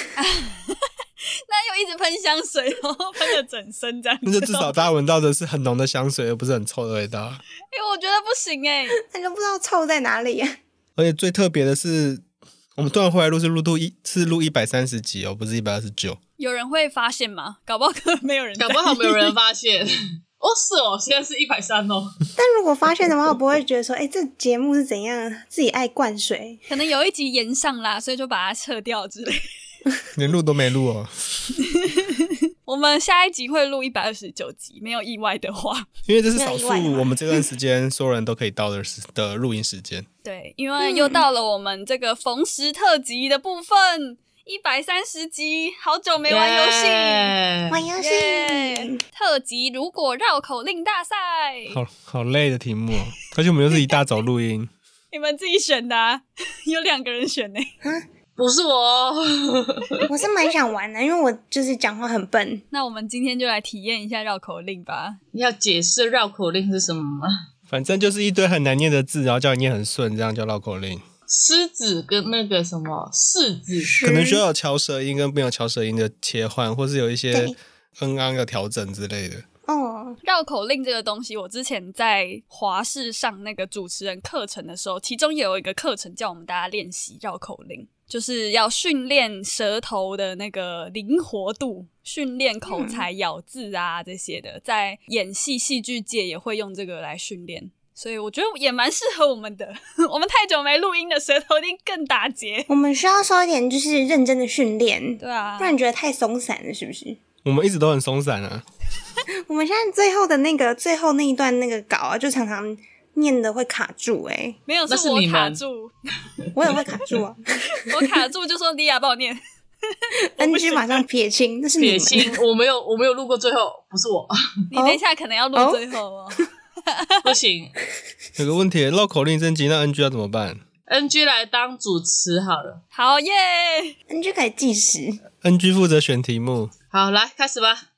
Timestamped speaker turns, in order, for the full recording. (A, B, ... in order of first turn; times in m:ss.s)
0:00.2-0:00.8 A
0:01.5-0:04.8 A
0:04.2-0:07.4 B
0:07.7-0:09.0 A
0:09.1-0:10.6 C
0:11.0-0:12.2 B
0:12.8-0:16.2 B
0:16.4-0:19.3 A
0:18.6-0:22.1 D
0:22.4-0:26.6 C
0:26.7-0:29.5 A
0:30.2-0:31.1 B
0:31.8-0:35.9 A
0:36.1-0:40.0 B
0:36.3-0:37.4 C
0:40.2-0:47.3 A
0:40.8-0:41.2 C
0:46.3-0:47.8 D
0:47.7-0:49.0 C
0:48.0-0:51.8 A
0:51.7-0:54.7 B
0:53.7-0:54.0 A
0:55.1-0:57.7 A
0:58.4-1:00.0 D
1:00.1-1:02.6 C
1:02.7-1:05.2 A
1:05.3-1:07.4 D
1:07.7-1:11.0 B
1:11.3-1:13.9 D
1:13.8-1:14.4 C
1:14.0-1:19.4 B
1:19.7-1:20.2 C
1:20.2-1:42.7 A
1:32.7-1:33.0 C
1:42.7-1:47.2 C
1:45.2-1:45.8 A
1:47.4-1:48.6 B
1:49.5-1:54.6 C
1:54.7-1:55.9 A
1:54.9-1:55.6 D
1:56.5-1:57.4 C
1:57.7-1:59.4 A
2:00.4-2:01.0 A
2:00.4-2:02.4 C
2:01.8-2:04.3 D
2:04.7-2:07.3 A
2:04.7-2:05.0 C
2:05.5-2:05.8 C
2:07.2-2:07.7 D
2:08.4-2:10.6 B
2:10.9-2:12.8 D
2:12.9-2:13.9 A
2:14.1-2:15.2 C
2:15.4-2:16.7 B
2:16.9-2:17.8 D